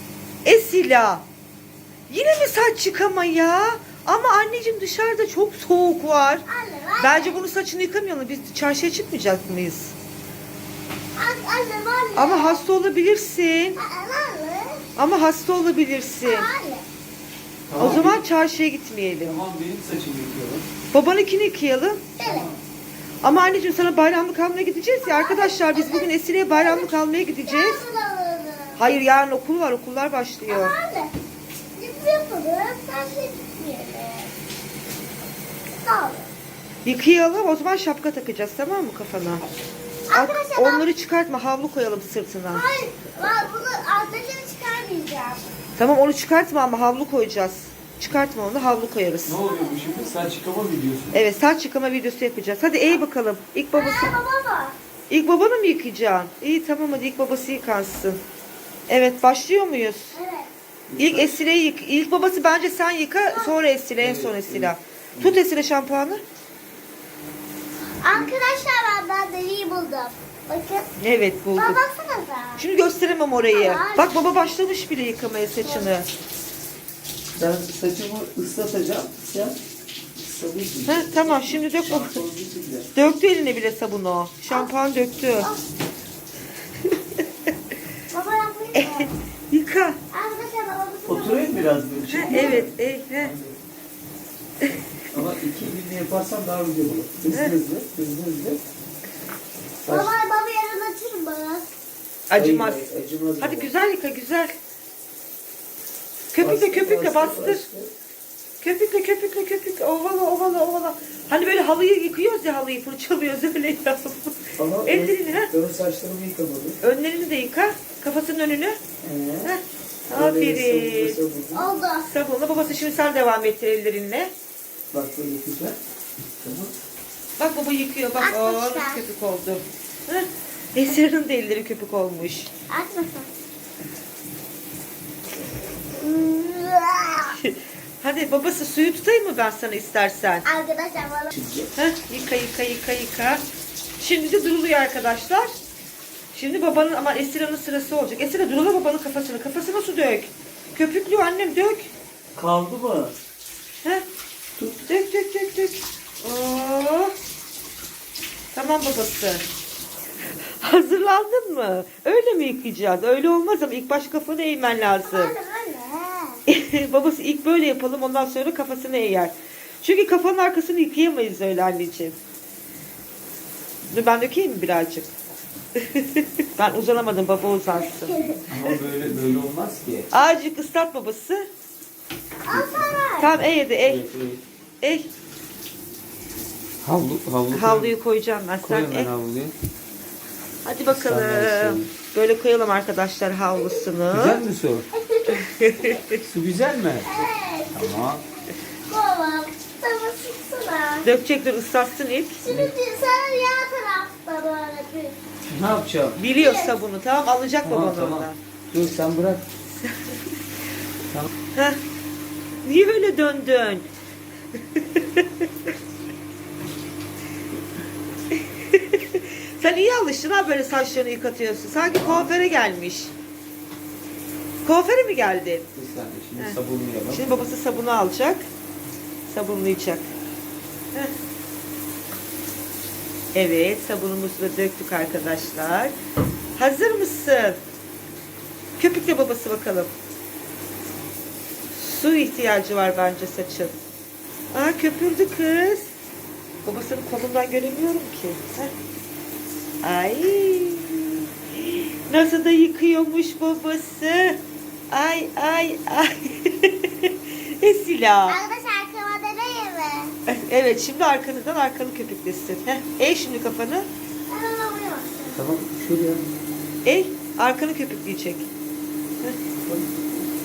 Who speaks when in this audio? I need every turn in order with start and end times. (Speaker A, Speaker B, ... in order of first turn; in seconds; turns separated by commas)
Speaker A: 0.5-1.2, Speaker A: 2.1-6.5, Speaker B: 6.5-7.4, Speaker A: 7.0-9.9, Speaker B: 11.2-12.6, Speaker A: 12.2-13.8, Speaker B: 13.8-14.8, Speaker A: 15.0-16.5, Speaker B: 16.2-16.9, Speaker C: 17.7-18.2, Speaker A: 17.8-19.4, Speaker C: 19.2-20.7, Speaker A: 20.9-22.1, Speaker B: 22.2-22.5, Speaker C: 22.2-22.6, Speaker A: 23.2-27.8, Speaker B: 25.0-26.9, Speaker B: 27.4-28.8, Speaker A: 28.8-30.8, Speaker B: 30.5-31.1, Speaker B: 31.8-34.3, Speaker B: 35.7-36.3, Speaker A: 36.9-39.4, Speaker B: 40.1-40.9, Speaker A: 40.1-42.6, Speaker B: 42.5-45.5, Speaker A: 45.8-49.4, Speaker C: 49.3-51.2, Speaker B: 49.4-50.2, Speaker A: 51.1-54.1, Speaker B: 53.7-54.8, Speaker A: 55.1-58.2, Speaker A: 58.9-60.2, Speaker B: 60.1-60.5, Speaker C: 60.9-61.4, Speaker A: 61.0-66.2, Speaker B: 63.3-63.5, Speaker C: 64.0-65.4, Speaker B: 68.0-70.9, Speaker A: 71.0-71.8, Speaker B: 71.6-72.7, Speaker A: 72.6-76.1, Speaker B: 73.5-74.2, Speaker B: 75.6-75.9, Speaker C: 77.3-79.6, Speaker C: 80.2-82.9, Speaker A: 80.9-82.2, Speaker A: 83.0-85.5, Speaker B: 84.5-84.7, Speaker B: 88.1-89.1, Speaker A: 88.8-90.0, Speaker B: 90.1-91.6, Speaker C: 91.1-93.6, Speaker A: 92.1-93.3, Speaker B: 92.2-92.6, Speaker C: 95.1-98.6, Speaker A: 97.3-97.6, Speaker C: 99.8-100.1, Speaker B: 99.9-101.7, Speaker A: 102.3-102.8, Speaker C: 102.3-103.7, Speaker A: 103.4-104.5, Speaker A: 106.3-107.7, Speaker C: 106.4-107.9, Speaker A: 108.6-115.5, Speaker C: 114.6-116.8, Speaker A: 116.8-118.8, Speaker C: 119.0-119.5, Speaker A: 119.5-121.2, Speaker C: 120.1-121.7, Speaker B: 121.5-122.1, Speaker A: 122.1-124.3, Speaker C: 124.9-125.8, Speaker C: 126.4-126.7, Speaker A: 127.4-132.5, Speaker B: 128.2-129.0, Speaker B: 132.7-133.3, Speaker B: 136.0-137.4, Speaker A: 137.4-140.4, Speaker B: 140.4-141.3, Speaker C: 141.3-141.7, Speaker A: 141.8-143.4, Speaker A: 144.0-145.5, Speaker A: 146.3-151.9, Speaker C: 152.4-153.2, Speaker C: 154.6-154.9, Speaker A: 154.9-157.1, Speaker A: 158.5-159.4, Speaker A: 160.6-165.3, Speaker B: 165.1-166.4, Speaker A: 166.5-172.2, Speaker A: 173.9-175.1, Speaker A: 176.0-178.1, Speaker B: 177.7-178.4, Speaker C: 178.5-180.1, Speaker A: 180.1-181.5, Speaker B: 182.4-183.3, Speaker C: 182.5-182.9, Speaker A: 183.2-184.0, Speaker C: 183.8-184.4, Speaker A: 184.8-185.1, Speaker C: 186.8-187.9, Speaker A: 187.5-189.1, Speaker C: 188.6-189.5, Speaker A: 190.7-194.4, Speaker C: 190.9-191.9, Speaker B: 193.5-193.8, Speaker C: 194.1-194.9, Speaker B: 194.9-196.0, Speaker A: 195.5-196.2, Speaker C: 196.2-197.1, Speaker B: 197.1-197.9, Speaker C: 197.8-198.2, Speaker B: 198.9-201.1, Speaker A: 201.0-202.4, Speaker B: 202.4-205.2, Speaker C: 205.5-206.2, Speaker A: 206.2-208.4, Speaker B: 206.4-206.8, Speaker C: 207.7-209.5, Speaker A: 209.8-210.2, Speaker A: 211.6-211.8, Speaker A: 212.6-213.9, Speaker A: 214.6-215.3, Speaker A: 218.9-223.1, Speaker C: 222.0-222.3, Speaker A: 224.7-225.7, Speaker C: 225.8-227.3, Speaker A: 227.1-228.4, Speaker A: 229.3-230.1, Speaker A: 233.3-236.0, Speaker A: 236.6-237.6, Speaker A: 238.8-239.9, Speaker A: 241.8-243.8, Speaker A: 244.5-245.9, Speaker A: 246.6-248.7, Speaker A: 249.8-251.2, Speaker A: 252.1-254.4, Speaker A: 254.9-258.4, Speaker B: 258.3-260.1, Speaker A: 260.3-263.9, Speaker B: 264.3-265.4, Speaker C: 265.3-266.3, Speaker A: 266.9-268.5, Speaker C: 269.6-270.3